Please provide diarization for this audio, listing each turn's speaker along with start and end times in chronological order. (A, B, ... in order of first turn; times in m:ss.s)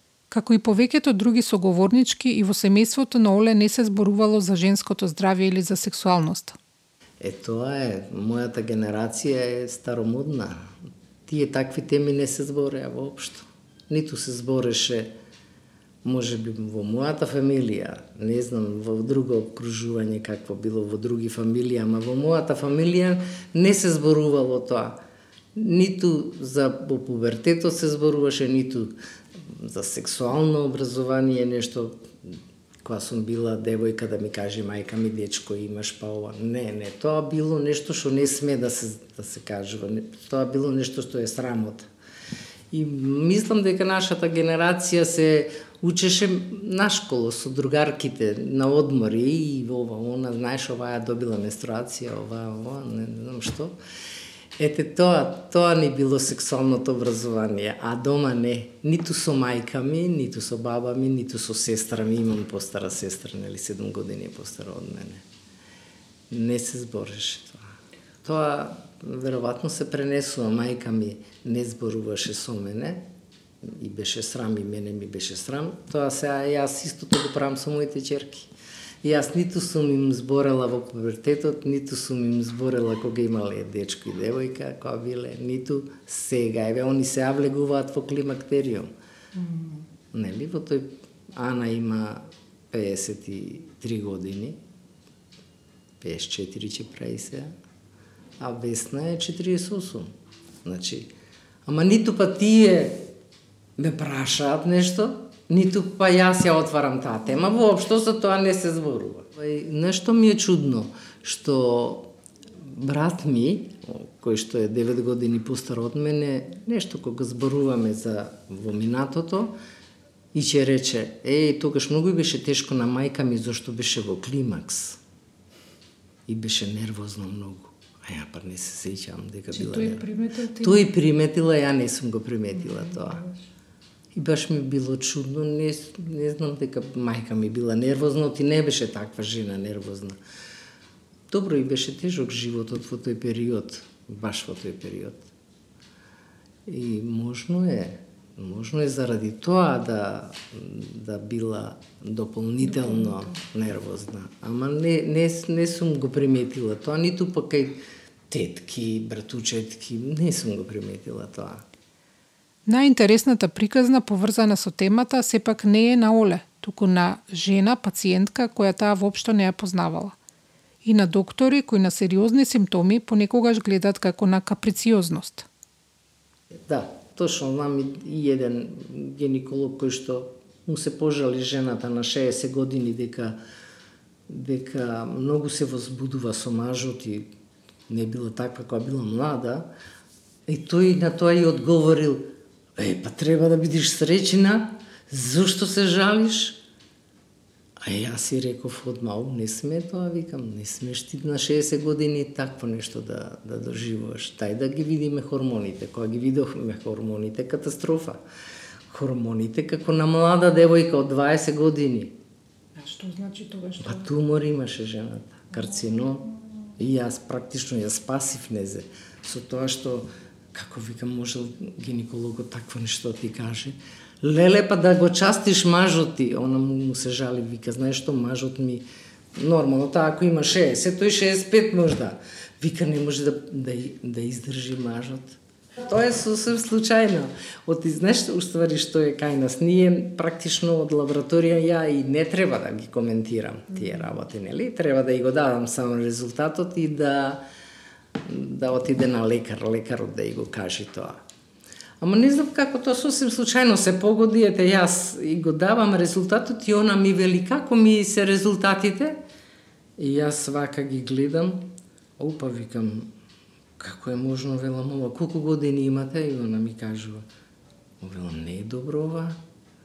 0:00.3-0:06.6 A
0:07.2-0:10.7 B
0:11.3-0:15.1 B
0:16.0-0:25.0 B
0:25.6-0:32.1 B
0:32.8-0:41.9 B
0:42.7-0:53.8 B
0:54.6-1:05.2 B
1:06.3-1:07.6 B
1:08.2-1:13.1 B
1:13.6-1:18.5 B
1:19.0-1:28.9 B
1:30.1-1:34.6 B
1:36.0-1:37.5 B
1:38.4-1:40.1 B
1:40.6-1:41.1 B
1:41.6-1:43.0 B
1:43.8-1:59.6 B
2:00.3-2:05.0 B
2:06.3-2:10.0 B
2:09.5-2:10.9 A
2:10.6-2:13.2 B
2:12.8-2:13.2 A
2:14.1-2:20.2 B
2:21.3-2:25.3 B
2:26.7-2:41.6 B
2:42.7-2:50.2 A
2:50.8-2:55.5 A
2:56.7-3:03.4 B
3:04.3-3:07.3 B
3:07.9-3:09.7 B
3:10.5-3:16.6 B
3:17.8-3:28.2 B
3:28.9-3:32.2 B
3:32.8-3:34.1 A
3:33.8-3:36.3 B
3:36.8-3:48.8 B
3:49.4-4:07.4 B
4:08.2-4:11.2 B
4:12.0-4:19.2 B
4:20.0-4:23.1 B
4:23.8-4:27.2 B
4:28.0-4:29.4 B